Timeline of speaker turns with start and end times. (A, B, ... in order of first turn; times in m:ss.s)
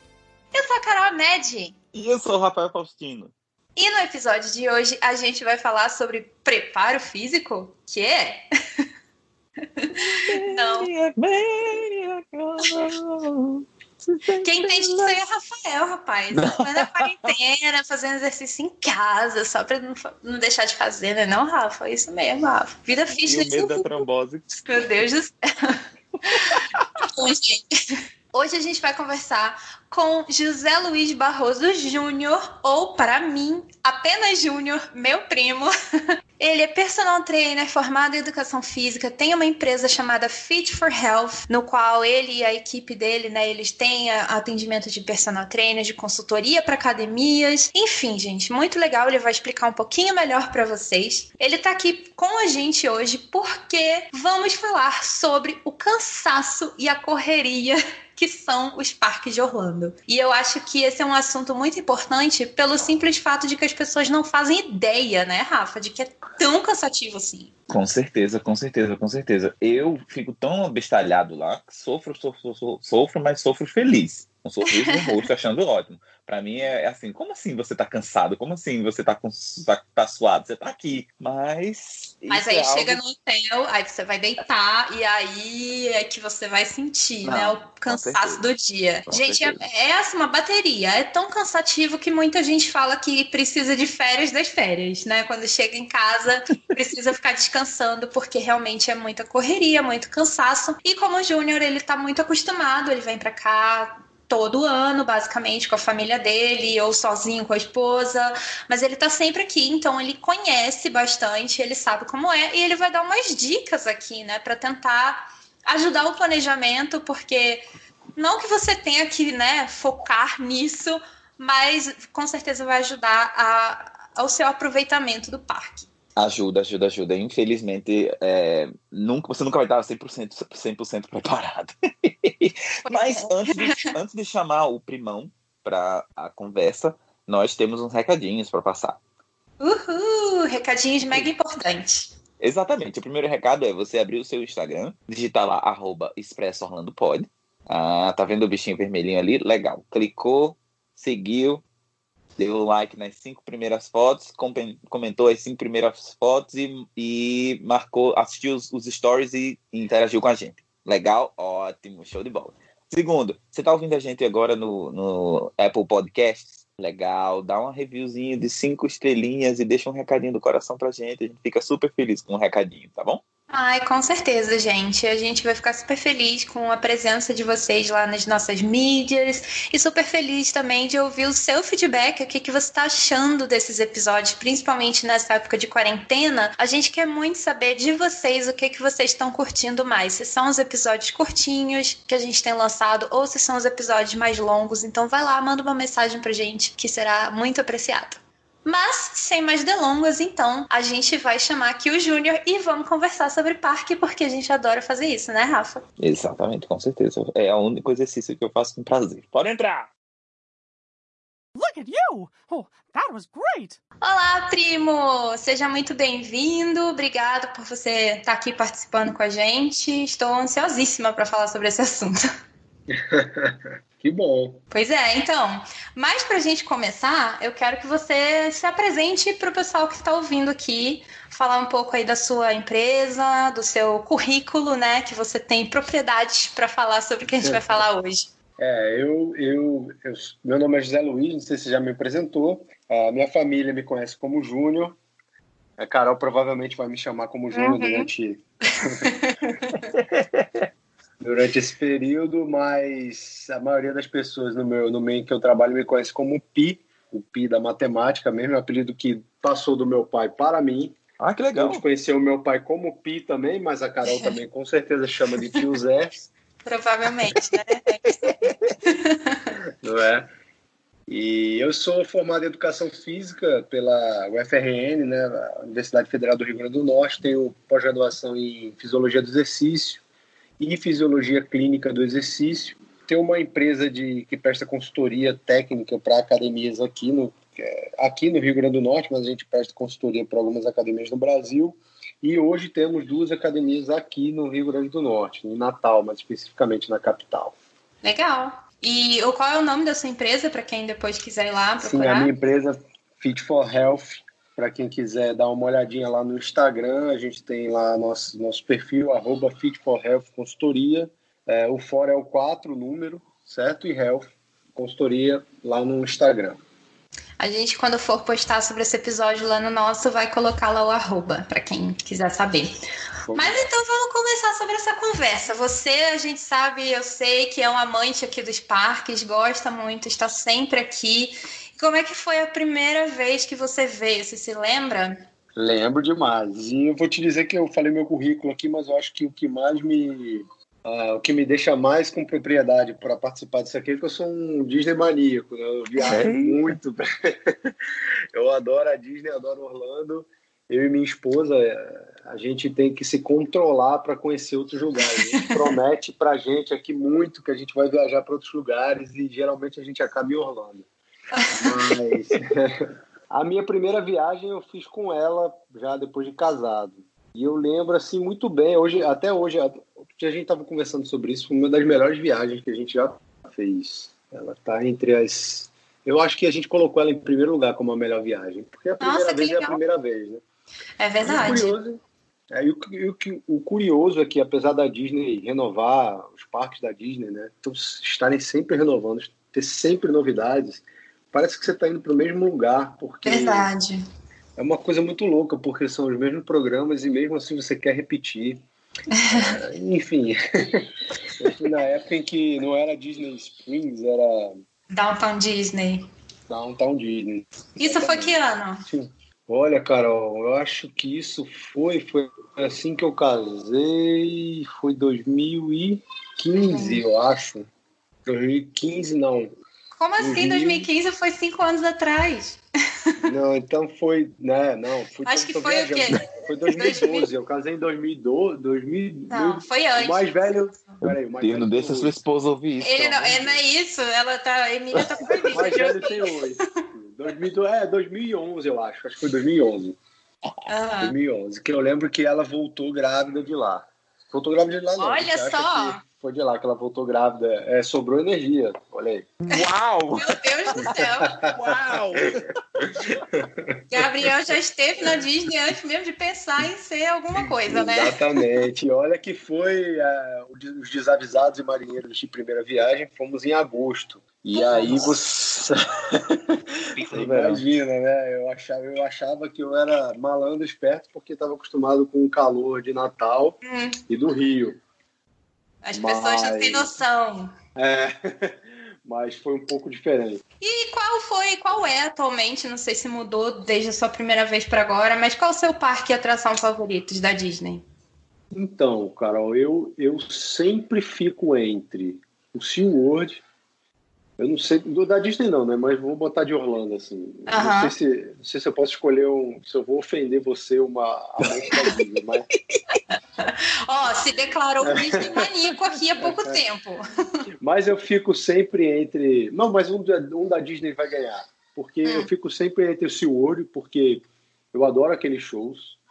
0:00.5-0:01.8 A
0:01.9-0:03.3 B
0:03.8-0:08.4 A
0:09.8-0:10.9 A
0:10.0-0:15.2 B
0:14.4-0:27.7 A
0:16.3-0:17.3 B
0:23.2-0:24.5 B
0:26.4-0:27.0 B
0:28.3-0:35.7 A
0:36.4-1:07.5 A
1:07.7-1:23.0 B
1:14.8-1:15.2 A
1:22.3-1:57.6 A
1:27.2-1:28.4 B
1:29.1-1:29.6 B
1:58.2-2:05.9 A
2:06.2-2:19.0 B
2:12.9-2:13.9 A
2:19.6-2:22.1 A
2:22.4-2:31.6 B
2:32.4-2:53.2 B
2:53.5-3:25.8 A
3:26.0-3:29.9 B
3:31.6-3:33.8 C
3:34.0-3:42.3 A
3:42.9-3:44.6 D
3:44.7-3:58.3 A
3:57.4-3:57.8 D
3:58.6-4:05.0 D
4:05.8-4:09.1 D
4:07.5-4:08.1 A
4:08.8-4:09.9 A
4:09.9-4:10.6 B
4:11.2-4:21.0 D
4:21.2-4:21.8 B
4:21.5-4:26.3 D
4:24.1-4:24.3 A
4:26.6-4:29.5 A
4:28.3-4:28.8 B
4:29.8-4:30.3 D
4:31.1-4:40.0 D
4:40.6-4:57.6 D
4:58.0-5:02.3 A
5:01.8-5:16.6 D
5:17.4-5:22.8 A
5:23.3-5:23.6 D
5:23.3-5:35.2 A
5:35.6-5:47.7 D
5:46.0-5:46.8 B
5:48.3-6:00.9 D
6:01.3-6:02.0 A
6:01.5-6:20.4 D
6:19.0-6:19.8 A
6:21.0-6:21.8 A
6:21.2-6:22.0 D
6:22.5-6:33.7 D
6:33.2-6:34.0 A
6:34.6-6:38.6 D
6:39.1-6:39.6 A
6:39.3-6:44.5 D
6:44.9-6:46.1 A
6:46.5-6:57.7 D
6:47.8-6:48.8 A
6:56.6-6:57.0 A
6:58.3-6:59.5 D
7:00.0-7:03.1 A
7:00.2-7:00.9 D
7:03.2-7:12.2 D
7:05.2-7:07.3 A
7:09.3-7:11.0 A
7:11.4-7:13.6 B
7:12.8-7:16.6 A
7:15.2-7:16.0 B
7:15.5-7:20.0 D
7:20.7-7:21.2 A
7:21.0-7:29.4 D
7:25.0-7:26.0 A
7:29.4-7:33.2 B
7:30.1-7:31.4 A
7:30.8-7:32.3 D
7:33.3-7:33.8 D
7:33.9-7:38.2 A
7:37.4-7:53.6 D
7:44.5-7:45.1 A
7:46.9-7:47.6 B
7:53.6-7:54.0 A
7:54.1-7:54.8 D
7:55.8-7:57.5 A
7:55.9-7:56.9 D
7:57.8-8:00.4 D
8:00.6-8:07.8 A
8:08.5-8:13.4 D
8:14.4-8:22.5 D
8:17.5-8:17.9 A
8:23.4-8:27.0 A
8:24.8-8:25.5 D
8:26.2-8:26.6 D
8:27.6-8:36.0 D